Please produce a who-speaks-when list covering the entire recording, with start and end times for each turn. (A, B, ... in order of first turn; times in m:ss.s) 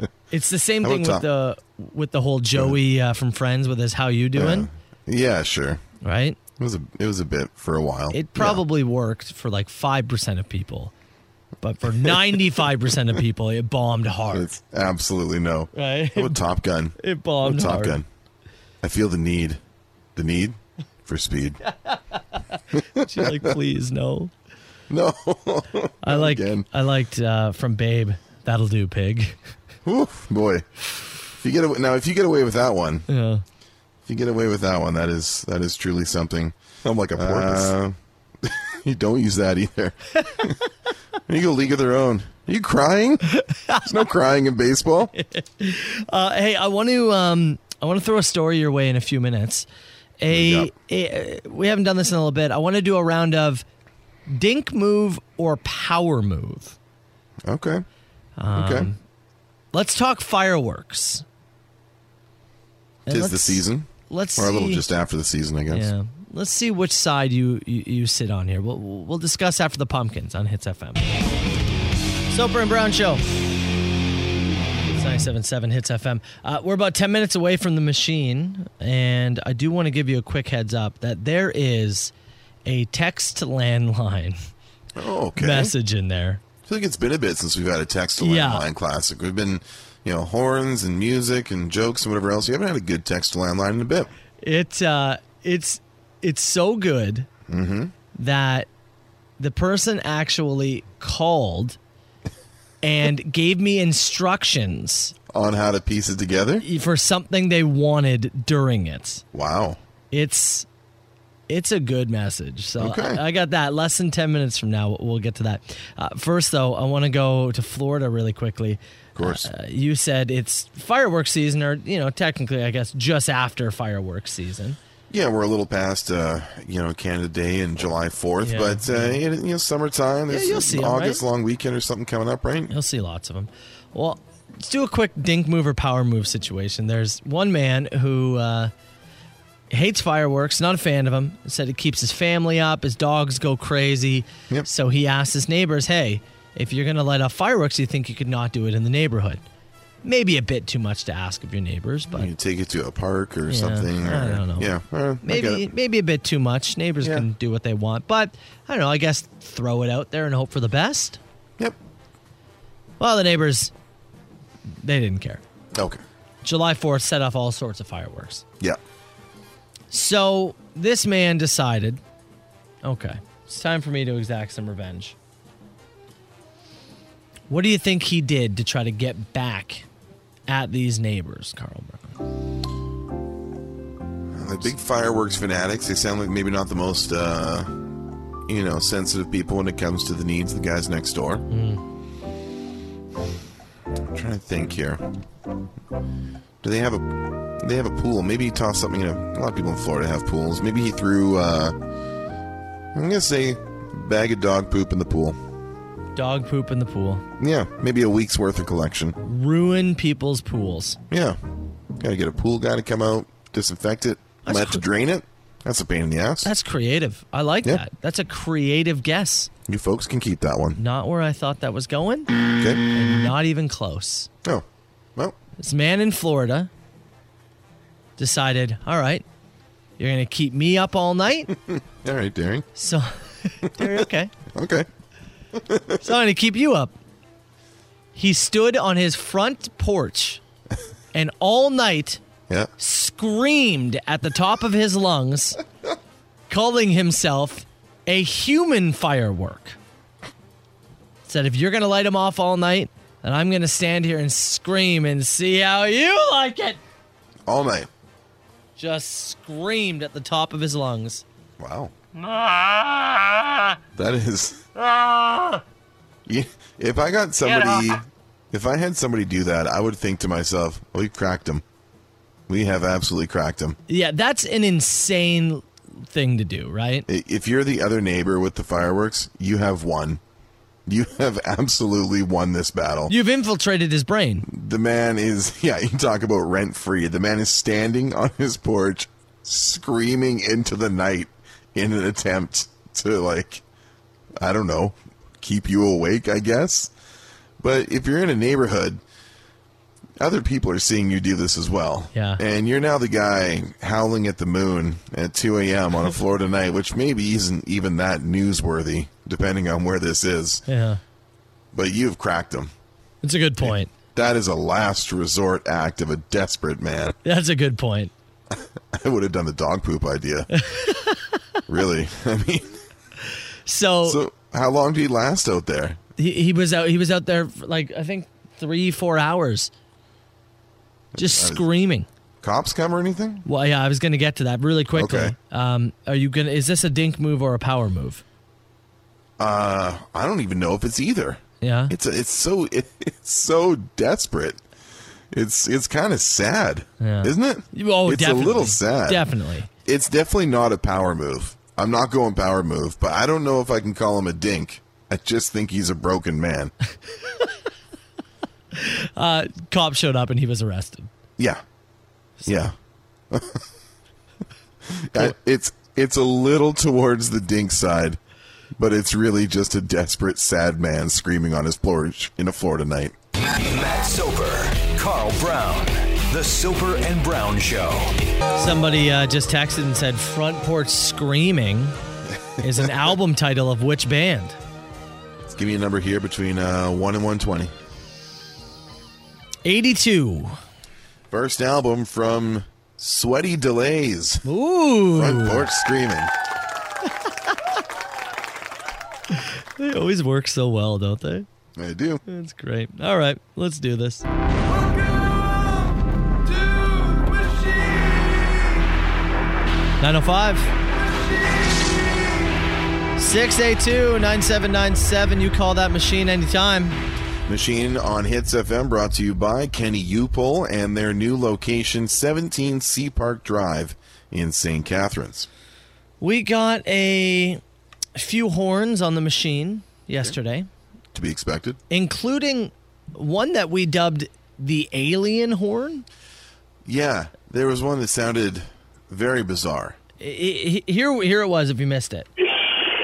0:00.3-0:04.7 A
0:00.8-0:01.3 B
0:04.4-0:05.8 B
0:06.0-0:06.4 A
0:06.6-0:08.6 B
0:08.1-0:10.9 A
0:11.6-0:14.5 A
0:12.0-0:12.4 B
0:14.3-0:18.1 B
0:15.7-0:16.4 A
0:17.0-0:18.0 A
0:18.8-0:19.6 B
0:20.2-0:21.6 B
0:21.7-0:24.3 A
0:22.8-0:23.5 B
0:24.9-0:26.7 B
0:26.0-0:29.4 A
0:29.8-0:30.7 B
0:31.4-0:33.1 B
0:33.1-0:33.4 A
0:34.1-0:40.6 B
0:37.2-0:37.5 A
0:41.3-0:43.3 B
0:43.3-0:44.0 A
0:43.8-0:45.1 B
0:45.2-0:49.7 A
0:50.2-0:53.6 A
0:50.3-0:50.7 B
0:54.3-0:56.8 A
0:57.4-0:57.8 B
0:58.4-0:59.0 A
0:58.5-0:58.9 B
0:59.7-1:01.2 A
1:03.1-1:04.9 A
1:03.1-1:05.9 B
1:05.7-1:11.1 A
1:12.3-1:13.2 A
1:14.9-1:22.1 A
1:22.7-1:24.4 A
1:25.0-1:25.7 B
1:25.4-1:26.4 A
1:26.6-1:34.1 B
1:28.2-1:28.7 A
1:34.4-1:37.3 A
1:37.5-1:37.9 B
1:38.2-1:38.7 A
1:39.4-1:41.8 A
1:42.8-1:45.1 A
1:45.3-1:46.6 B
1:46.6-1:49.2 A
1:49.3-1:49.8 B
1:50.1-1:50.7 A
1:51.5-2:04.8 A
1:52.8-1:53.2 B
1:59.2-1:59.5 B
2:05.1-2:12.7 B
2:08.4-2:09.2 A
2:10.3-2:11.2 A
2:12.7-2:18.7 A
2:19.7-2:29.4 A
2:30.0-2:32.3 A
2:32.1-2:35.7 B
2:33.5-2:41.2 A
2:43.0-2:43.7 A
2:44.8-2:45.4 A
2:45.7-2:46.0 B
2:46.4-2:48.4 A
2:49.9-2:52.0 A
2:52.8-2:55.2 A
2:57.5-2:59.9 A
3:00.5-3:02.2 A
3:04.3-3:07.9 B
3:08.5-3:11.5 B
3:11.5-3:11.8 A
3:14.1-3:15.0 B
3:16.6-3:21.8 B
3:22.9-3:25.4 B
3:26.2-3:27.2 A
3:27.4-3:29.2 B
3:29.2-3:31.0 A
3:31.1-3:31.4 B
3:32.0-3:36.5 B
3:34.4-3:34.8 A
3:36.4-3:39.5 A
3:39.7-3:40.8 B
3:40.8-3:42.3 A
3:42.6-3:42.8 B
3:42.9-3:44.3 A
3:45.6-3:46.7 A
3:48.2-3:49.2 A
3:50.0-3:51.5 A
3:51.7-3:52.7 B
3:52.8-3:54.3 A
3:54.5-3:54.9 B
3:55.5-3:56.0 B
3:56.0-3:57.0 A
3:58.2-4:00.4 A
4:01.1-4:02.2 A
4:02.8-4:05.6 A
4:06.5-4:09.8 A
4:11.3-4:16.8 A
4:17.5-4:17.9 B
4:18.8-4:21.2 A
4:21.6-4:21.9 B
4:24.0-4:24.7 B
4:26.3-4:31.6 B
4:32.5-4:33.8 B
4:33.9-4:37.1 A
4:37.1-4:40.2 B
4:40.9-4:43.1 B
4:43.1-4:44.5 A
4:44.4-4:53.6 B
4:54.4-4:56.9 B
4:57.6-4:59.0 B
5:00.2-5:10.6 B
5:02.1-5:02.4 A
5:10.7-5:11.0 A
5:11.7-5:12.7 B
5:13.2-5:13.9 A
5:13.6-5:17.2 B
5:17.2-5:18.1 A
5:18.5-5:20.5 B
5:20.5-5:21.4 A
5:21.7-5:22.8 B
5:23.7-5:24.2 A
5:24.0-5:26.0 B
5:26.2-5:29.7 A
5:31.1-5:31.6 B
5:31.2-5:32.1 A
5:32.4-5:33.4 B
5:33.5-5:38.2 A
5:34.9-5:35.4 B
5:39.4-5:44.6 B
5:41.6-5:41.9 A
5:45.3-5:49.3 B
5:47.0-5:49.7 A
5:49.8-5:56.7 B
5:58.7-6:01.1 A
6:01.4-6:01.6 B
6:02.4-6:02.7 B
6:03.3-6:03.6 B
6:04.9-6:08.2 B
6:08.8-6:13.2 B
6:13.6-6:18.2 C
6:18.6-6:22.0 A
6:22.3-6:22.9 B
6:22.6-6:24.6 A
6:25.4-6:27.7 B
6:29.6-6:30.6 A
6:31.3-6:34.4 B
6:34.4-6:35.7 A
6:35.1-6:36.3 B
6:39.3-6:41.5 A
6:41.8-6:42.2 B
6:42.3-6:44.2 A
6:50.0-6:50.7 A
6:53.2-6:57.0 A
6:57.5-7:05.5 B
7:06.2-7:07.6 A
7:08.2-7:10.7 A
7:11.1-7:11.8 B
7:11.9-7:16.1 A
7:16.8-7:20.0 B
7:20.2-7:22.3 A